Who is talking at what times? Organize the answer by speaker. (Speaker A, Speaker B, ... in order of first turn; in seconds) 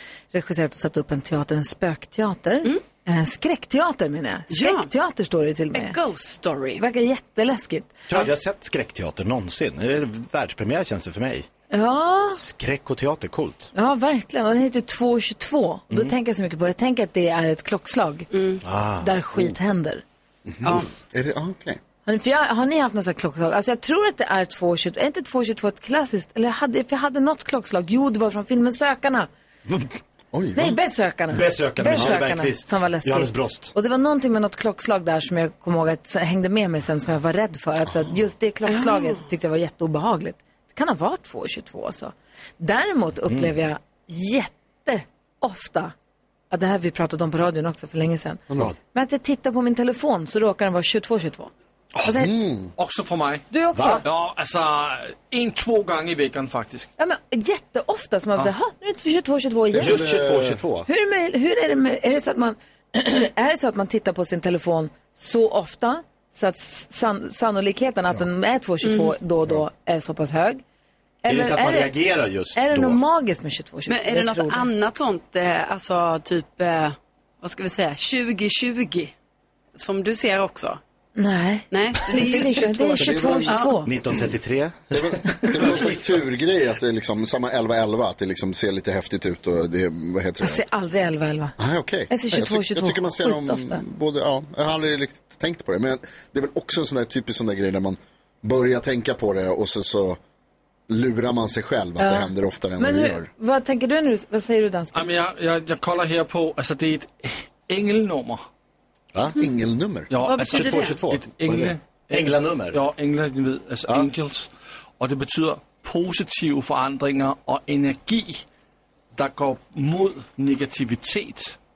Speaker A: 0.3-6.0, 6.8-8.0, 11.7-12.4, 13.7-18.3, 19.0-20.0, 22.1-29.3, 30.5-45.9, 46.5-51.5, 52.0-52.3, 53.5-54.0, 57.0-60.0, 60.9-70.6, 71.2-71.9, 72.5-74.7, 81.2-83.9, 90.4-91.5, 92.1-93.8, 102.0-105.0
Speaker B: 4.5-4.9, 5.7-6.8, 18.3-18.6, 38.7-39.2, 68.8-69.1, 73.9-79.1, 79.8-80.8, 81.7-83.8, 110.2-111.0
Speaker C: 8.1-11.5, 12.3-13.7, 18.6-19.5, 31.3-33.7, 59.8-60.9, 71.3-73.0, 83.8-86.1, 110.4-112.8
Speaker D: 20.4-21.8, 30.3-30.8, 37.9-38.2, 52.1-52.7, 59.7-60.6, 83.0-84.2, 84.9-90.6, 91.6-100.2, 100.9-103.3, 109.3-110.1, 111.5-111.7
Speaker E: 52.8-56.9, 104.9-108.5, 110.1-118.4, 119.1-121.6